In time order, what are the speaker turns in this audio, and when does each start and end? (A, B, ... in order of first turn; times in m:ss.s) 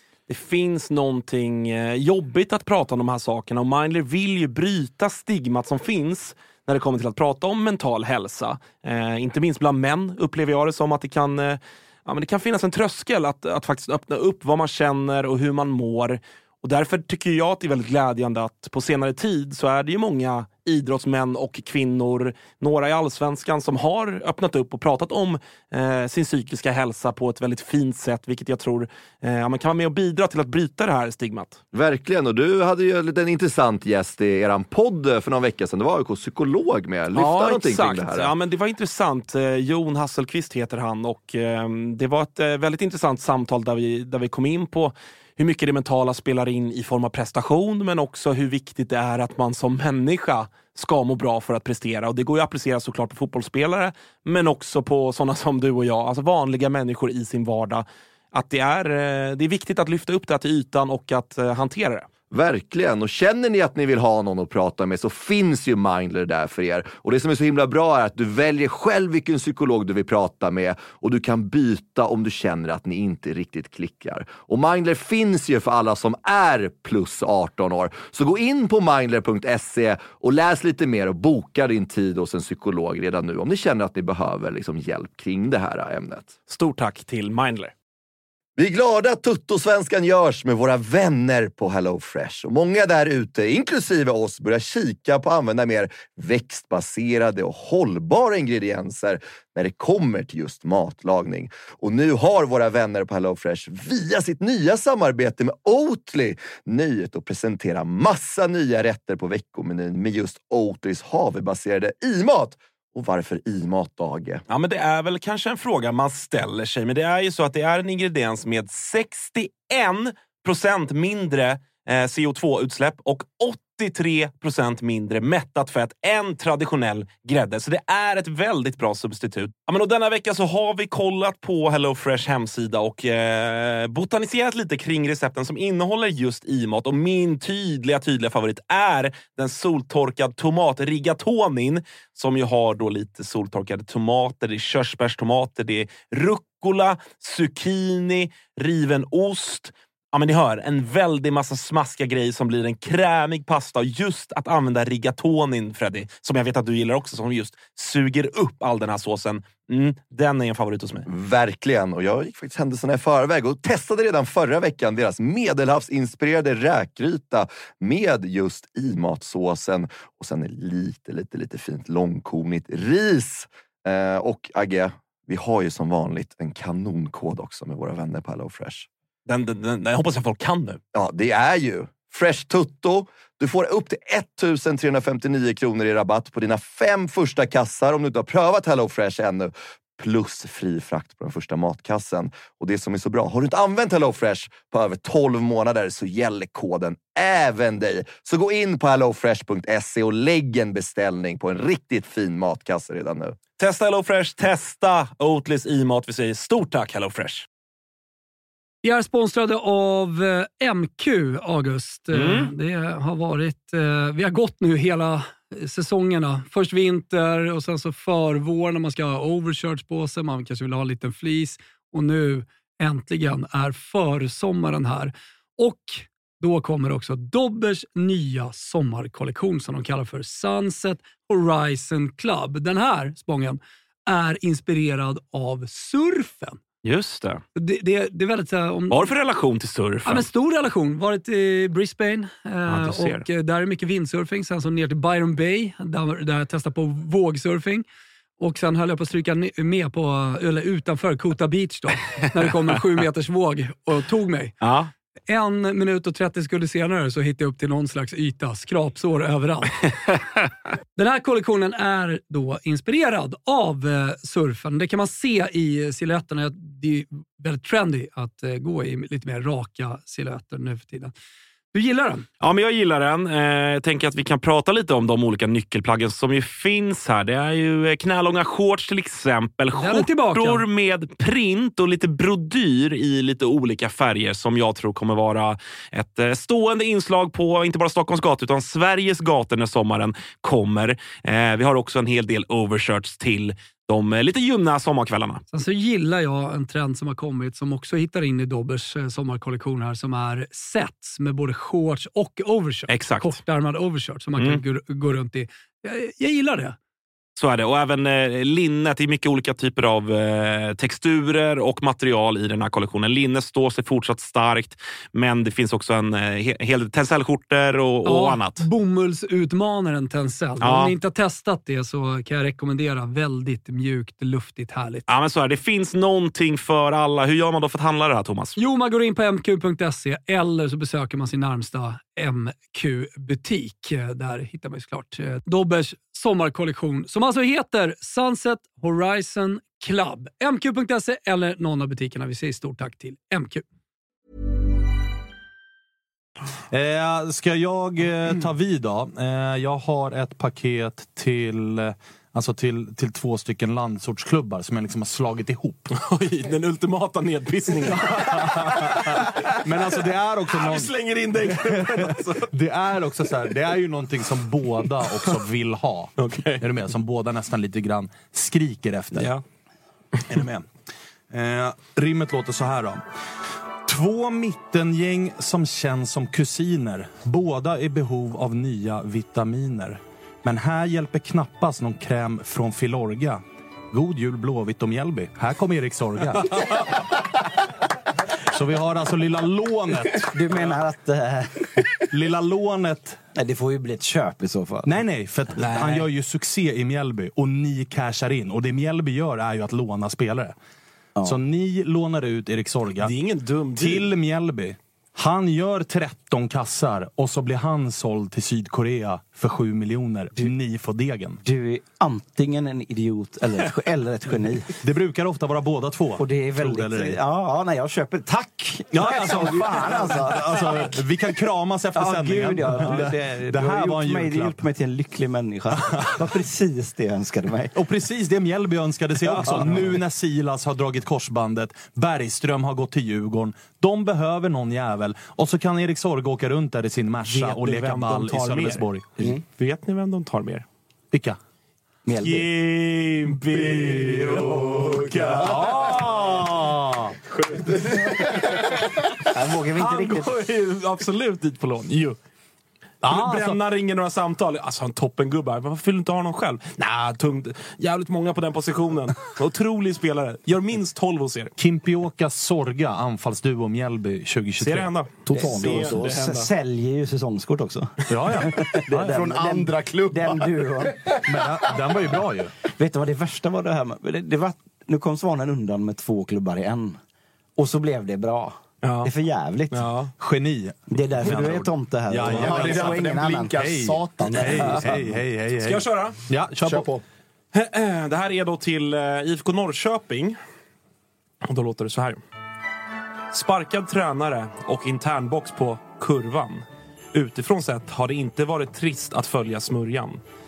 0:00.3-0:31.6 A
0:31.7-0:38.3 B
0:37.1-1:02.1 A
1:02.3-1:26.3 B
1:26.5-1:27.7 A
1:28.6-1:54.4 B
1:54.5-2:41.1 A
2:41.0-2:58.9 B
2:59.3-3:00.8 A
3:00.9-3:23.4 B
3:23.6-3:27.5 A
3:28.8-3:56.6 C
3:32.1-3:32.5 A
3:56.8-3:57.4 A
3:57.6-3:59.1 C
3:58.9-4:00.2 A
4:00.0-4:07.8 C
4:02.7-4:03.2 A
4:08.4-4:14.6 C
4:14.6-4:14.9 A
4:15.3-4:19.9 C
4:21.0-4:31.1 C
4:31.7-4:32.2 C
4:32.4-4:55.4 A
4:39.7-4:40.6 C
4:55.5-5:06.8 C
5:02.9-5:03.4 A
5:07.4-5:18.6 A
5:18.0-5:25.0 C
5:20.6-5:20.9 A
5:25.1-5:28.6 A
5:28.6-5:43.6 C
5:46.7-5:55.9 D
5:55.9-5:59.9 A
5:58.0-6:00.9 D
6:00.5-6:02.5 A
6:01.4-6:09.3 D
6:06.2-6:06.6 A
6:09.1-6:09.4 A
6:10.3-6:10.7 D
6:11.3-6:13.0 D
6:13.8-6:27.0 D
6:28.5-6:30.7 D
6:30.3-6:31.8 E
6:32.1-6:33.2 D
6:33.3-6:35.0 E
6:34.8-6:40.5 D
6:35.6-6:36.1 A
6:41.2-6:43.1 D
6:43.0-6:44.1 A
6:43.8-6:51.4 D
6:51.4-6:54.8 E
6:54.8-6:57.2 D
6:56.2-7:00.7 E
6:58.9-7:04.6 D
7:01.9-7:07.7 E
7:05.8-7:06.2 D
7:07.7-7:19.1 D
7:09.2-7:09.9 E
7:17.2-7:20.6 A
7:21.1-7:21.4 D
7:22.0-7:22.5 E
7:22.2-7:26.3 A
7:23.7-7:27.2 D
7:27.3-7:28.6 A
7:28.0-7:28.4 F
7:29.2-7:30.3 E
7:29.7-7:32.2 A
7:33.0-7:33.6 D
7:33.0-7:41.5 A
7:41.6-7:44.9 D
7:44.6-7:46.5 A
7:45.3-7:46.1 F
7:45.3-7:51.1 E
7:48.1-7:49.2 D
7:48.9-7:51.2 F
7:51.2-7:52.5 D
7:52.7-7:57.0 E
7:57.6-7:59.9 E
7:58.8-7:59.1 A
7:59.7-8:00.1 A
8:00.2-8:06.9 D
8:00.9-8:03.5 E
8:02.2-8:05.1 F
8:05.6-8:06.2 A
8:06.6-8:07.0 F
8:07.5-8:10.4 A
8:11.4-8:12.2 A
8:13.3-8:20.2 A